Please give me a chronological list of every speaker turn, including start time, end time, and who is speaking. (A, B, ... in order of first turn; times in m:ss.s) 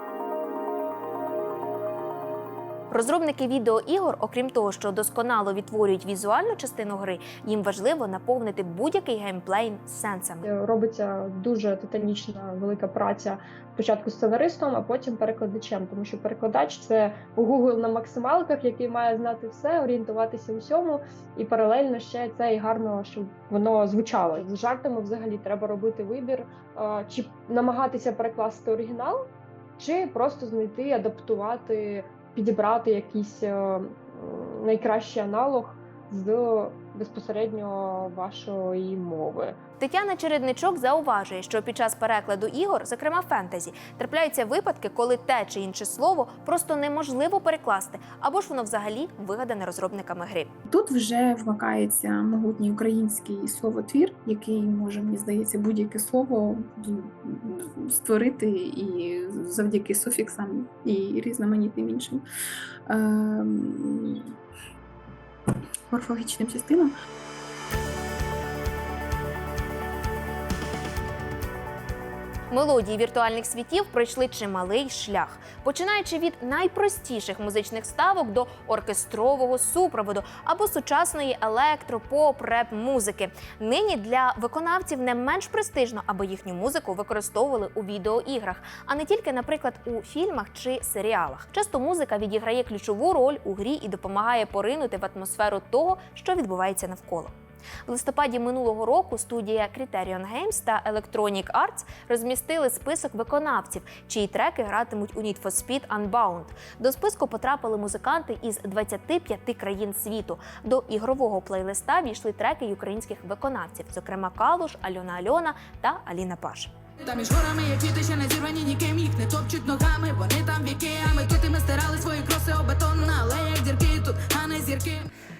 0:02.9-0:10.4 A
0:10.4-0:29.2 B
0:29.8-0:39.6 B
0:39.8-0:50.5 A
0:50.6-1:02.2 C
1:02.9-1:04.4 C
1:05.9-1:06.9 C
1:12.5-1:37.3 A
1:37.9-1:56.7 A
1:57.0-2:05.1 D